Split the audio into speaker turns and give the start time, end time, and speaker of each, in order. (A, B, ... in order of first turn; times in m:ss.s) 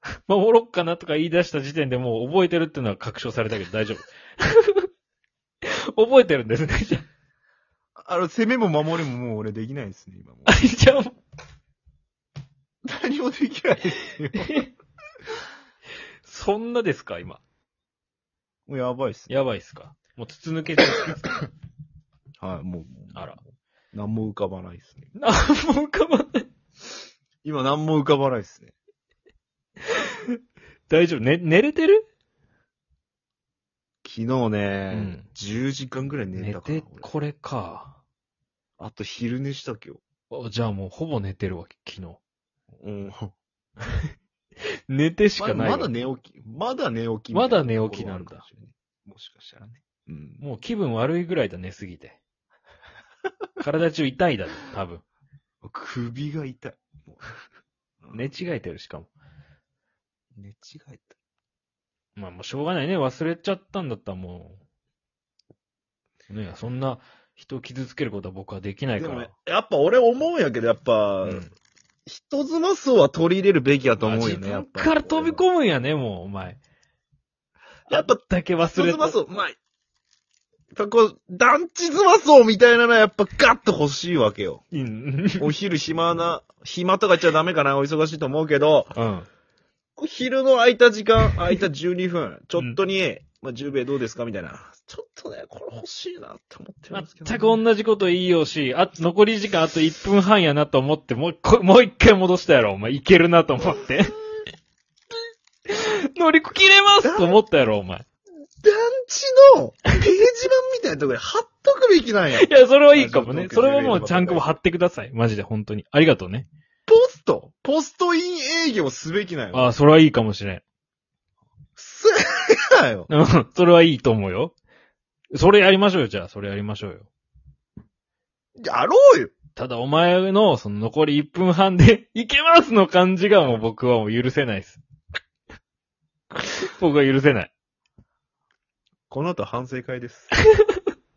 0:00.2-0:04.9 A
0:05.6-0:07.0 A
0:08.0-0:10.6 B
0:10.4-0:11.2 A
0:12.8-0:14.7 B
0:14.3-0:14.6 A
0:16.2-0:17.4 A
0:18.7-0:19.4 B
0:19.3-0:21.5 A
0:22.4-0:23.4 B
0:23.1-0:23.4 A
0:23.9-0:25.1 B
0:25.2-0:26.5 A
0:27.4-0:28.7 B
0:29.8-0:30.3 A
0:30.9-0:32.1 A
0:34.0-0:37.1 B
0:34.9-0:35.3 A
0:36.3-0:38.0 A
0:38.8-0:40.0 B
0:40.3-0:42.2 A
0:42.8-0:43.3 B
0:43.8-0:44.1 A
0:44.9-0:45.9 A
0:45.4-0:50.4 B
0:47.3-0:48.4 A
0:50.4-0:52.2 A
0:53.6-0:55.0 A
0:55.6-0:57.2 B
0:58.0-0:58.3 B
0:58.1-0:59.1 A
1:00.4-1:01.2 B
1:02.2-1:04.6 A
1:06.3-1:09.3 A
1:09.0-1:11.5 B
1:11.2-1:11.5 A
1:12.0-1:15.4 B
1:14.0-1:16.6 A
1:17.9-1:19.2 A
1:17.9-1:19.6 B
1:20.7-1:24.6 B
1:24.7-1:25.5 A
1:25.4-1:28.9 B
1:28.9-1:29.3 A
1:30.0-1:37.6 B
1:36.9-1:44.2 A
1:45.7-1:48.0 A
1:47.0-1:47.4 B
1:48.6-1:54.5 B
1:52.3-1:56.5 A
1:56.9-1:59.7 B
1:59.5-2:00.6 A
2:01.8-2:03.1 B
2:03.1-2:04.5 A
2:05.3-2:07.1 A
2:08.6-2:09.3 B
2:09.5-2:14.8 A
2:16.4-2:17.5 A
2:19.1-2:20.3 B
2:20.4-2:20.8 A